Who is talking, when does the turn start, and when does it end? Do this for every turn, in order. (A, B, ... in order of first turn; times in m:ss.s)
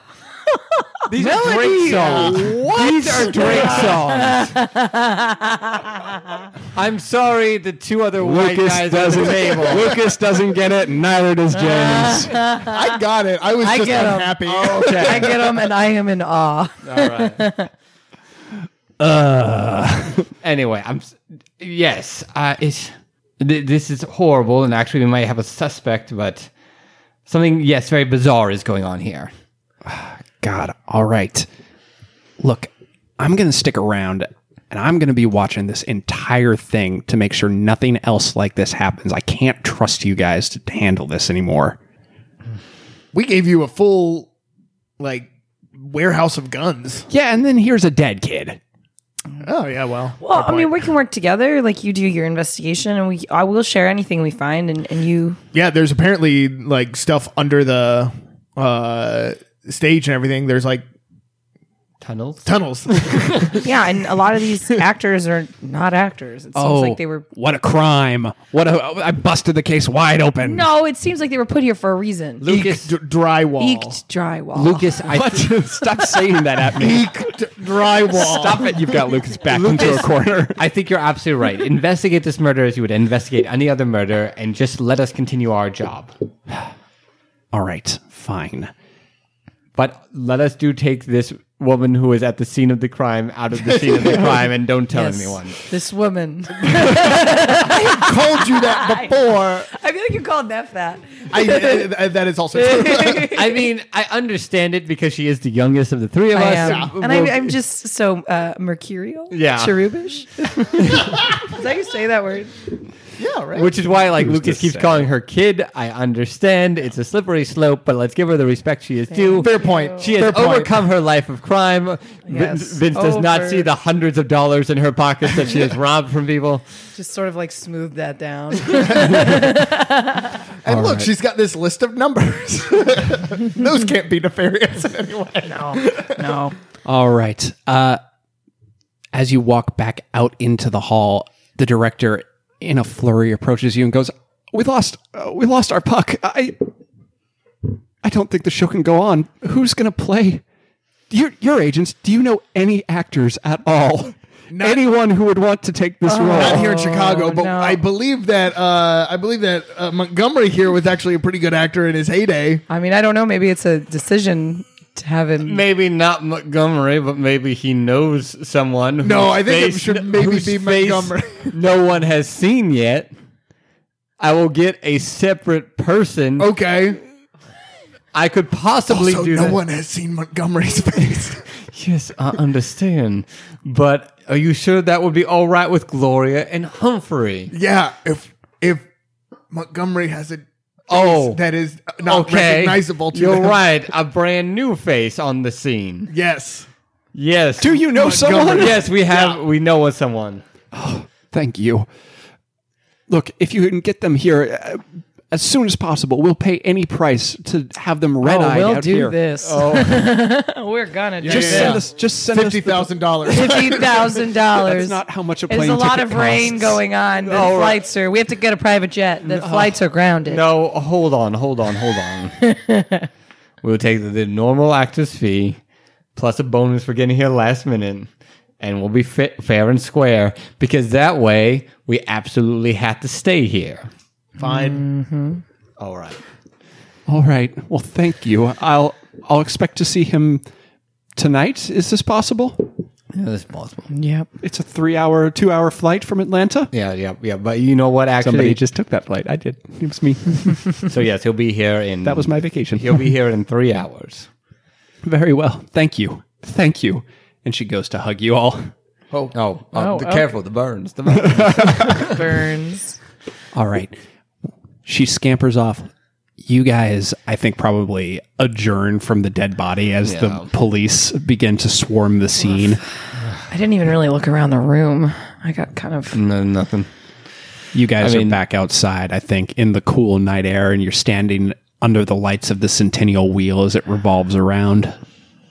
0:01.1-0:04.5 A
0:01.2-0:04.0 B
0:01.5-0:06.4 C
0:06.7-0:10.0 A
0:08.2-0:12.4 B
0:11.5-0:12.8 C
0:12.6-0:15.4 D
0:13.6-0:17.7 C
0:14.4-0:15.4 A
0:16.8-0:17.4 A
0:19.0-0:20.3 B
0:20.4-0:26.5 A
0:27.3-0:29.3 A
0:29.8-0:31.5 B
0:32.4-0:41.8 B
0:43.1-0:44.3 D
0:45.0-0:47.0 D
0:47.1-0:48.6 B
0:49.4-0:50.7 D
0:50.2-0:55.4 C
0:55.5-1:00.8 D
1:02.0-1:03.6 A
1:02.4-1:03.6 D
1:03.6-1:07.2 C
1:06.5-1:10.7 B
1:10.4-1:12.4 C
1:12.4-1:12.9 A
1:12.5-1:14.0 D
1:13.6-1:15.0 C
1:14.5-1:15.5 A
1:15.0-1:17.3 B
1:16.8-1:18.7 D
1:18.1-1:20.6 B
1:19.5-1:26.1 A
1:27.5-1:28.7 B
1:29.8-1:35.6 A
1:33.7-1:34.4 D
1:34.9-1:39.1 C
1:37.0-1:39.7 D
1:39.7-1:41.9 C
1:41.3-1:43.3 D
1:42.5-1:43.6 C
1:43.2-1:47.4 A
1:46.3-1:52.5 C
1:46.6-1:46.9 D
1:49.3-1:49.9 A
1:53.2-1:53.7 D
1:53.5-2:06.6 A
1:54.2-1:55.1 B
1:59.1-2:00.1 C
1:59.4-2:00.7 D
2:02.3-2:03.7 C
2:06.9-2:10.3 C
2:08.9-2:09.4 D
2:10.6-2:16.2 D
2:10.6-2:11.1 B
2:15.4-2:16.5 C
2:16.8-2:18.0 B
2:19.1-2:26.7 B
2:28.0-2:30.4 B
2:31.1-2:36.6 B
2:34.5-2:34.8 D
2:36.0-2:37.8 C
2:36.3-2:42.6 D
2:42.7-2:45.6 C
2:45.4-2:53.1 A
2:49.0-2:51.5 D
2:54.2-2:56.5 A
2:56.4-2:57.0 D
2:58.1-2:59.6 A
2:58.9-3:01.4 D
3:01.6-3:07.5 A
3:07.5-3:08.8 D
3:09.5-3:13.6 D
3:10.9-3:11.4 A
3:12.0-3:16.1 A
3:16.1-3:16.7 D
3:17.1-3:17.8 A
3:17.6-3:18.8 B
3:17.9-3:19.4 D
3:18.4-3:20.4 A
3:20.7-3:21.9 B
3:23.1-3:29.2 B
3:28.2-3:31.8 C
3:29.4-3:30.1 A
3:31.2-3:34.2 D
3:31.2-3:33.7 B
3:33.3-3:40.4 C
3:34.6-3:36.8 B
3:37.2-3:37.8 A
3:39.4-3:39.6 A
3:40.2-3:42.4 A
3:42.4-3:43.1 C
3:43.6-3:45.6 A
3:46.2-3:48.1 A
3:48.6-3:53.9 A
3:54.4-3:55.4 C
3:54.4-3:54.8 D
3:55.8-3:56.2 A
3:57.1-4:00.4 B
4:01.2-4:02.7 B
4:03.1-4:03.9 A
4:03.9-4:04.3 C
4:04.4-4:06.7 B
4:06.7-4:08.6 A
4:08.2-4:10.8 B
4:10.9-4:14.3 A
4:12.0-4:13.0 B
4:15.0-4:18.7 B
4:19.3-4:22.2 A
4:19.7-4:20.3 C
4:21.2-4:21.8 B
4:21.8-4:23.0 C
4:23.5-4:24.0 B
4:24.8-4:25.9 B
4:26.4-4:32.8 B
4:30.0-4:30.5 A
4:33.5-4:36.2 C
4:36.1-4:36.9 A
4:37.7-4:45.0 B
4:38.0-4:38.4 A